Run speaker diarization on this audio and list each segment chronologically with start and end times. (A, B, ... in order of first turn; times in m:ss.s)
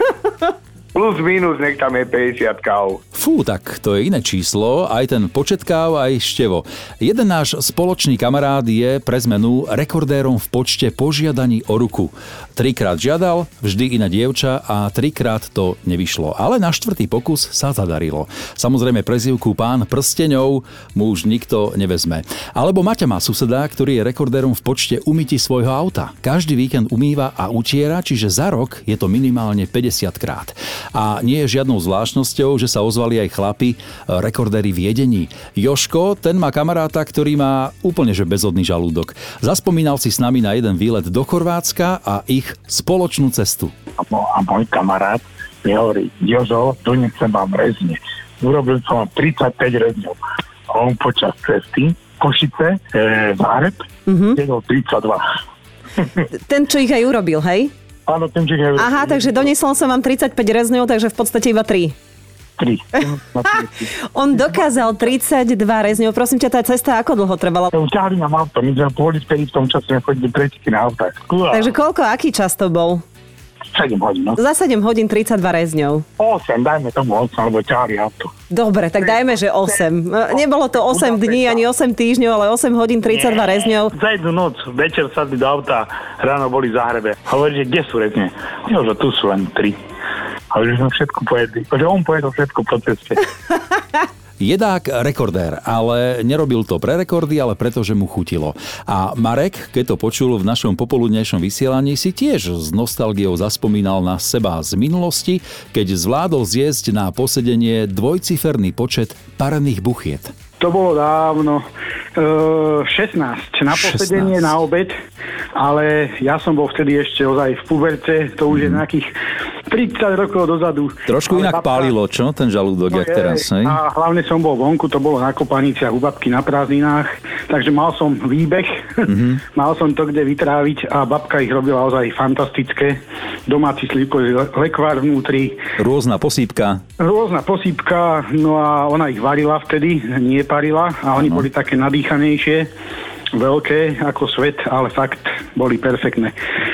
0:00.9-0:03.0 A
0:03.1-0:43.7 B
0:44.0-0:50.2 C
0:50.7-0:53.8 C
0:54.1-0:54.4 D
0:54.3-0:55.2 C
0:56.3-0:57.7 D
0:58.1-0:59.5 C
0:58.8-1:01.9 D
1:02.6-1:03.9 C
1:03.5-1:07.7 D
1:07.7-1:11.7 C
1:11.5-1:13.0 D
1:13.7-1:14.4 C
1:14.4-1:16.0 D
1:16.2-1:18.3 C
1:18.5-1:23.9 D
1:20.3-1:21.6 C
1:23.1-1:29.8 C
1:30.5-1:33.2 C
1:34.4-1:50.3 B
1:50.6-1:51.6 E
1:52.2-1:54.9 E
1:53.7-1:54.6 B
1:55.6-1:59.1 E
1:58.5-1:58.8 B
1:59.7-2:01.9 E
2:01.1-2:03.8 B
2:02.9-2:15.6 E
2:09.1-2:09.4 B
2:15.8-2:16.8 B
2:17.0-2:22.7 E
2:21.2-2:21.5 B
2:23.3-2:26.3 E